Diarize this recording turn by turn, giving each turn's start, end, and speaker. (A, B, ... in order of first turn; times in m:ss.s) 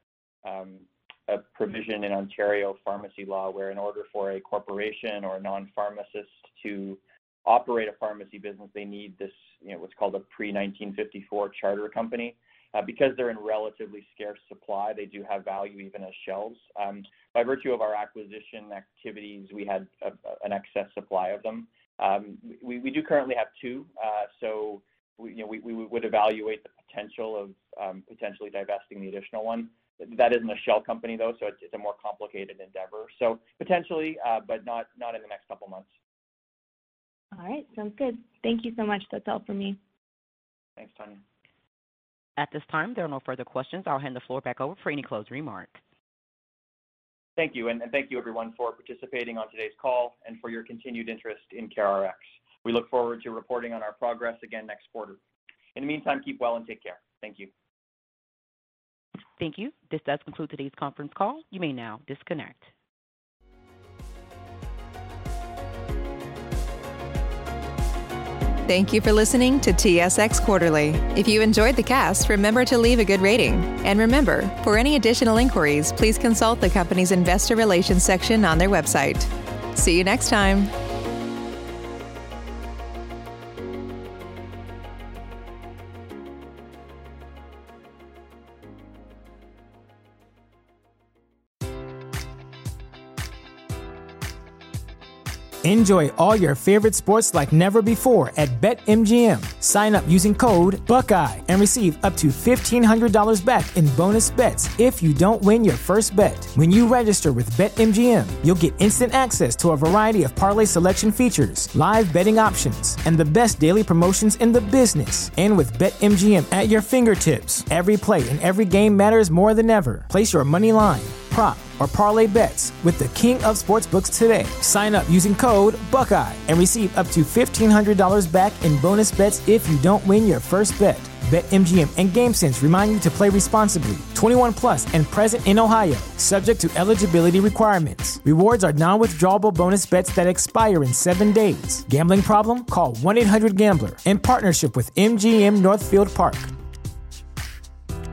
0:00.4-0:35.9 A
0:37.3-0:39.8 B
0:40.8-0:41.2 A
0:42.4-0:45.8 C
0:47.4-0:55.2 A
0:55.7-0:57.5 A
0:59.4-1:02.7 C
1:08.7-1:20.7 D
1:35.6-2:26.5 E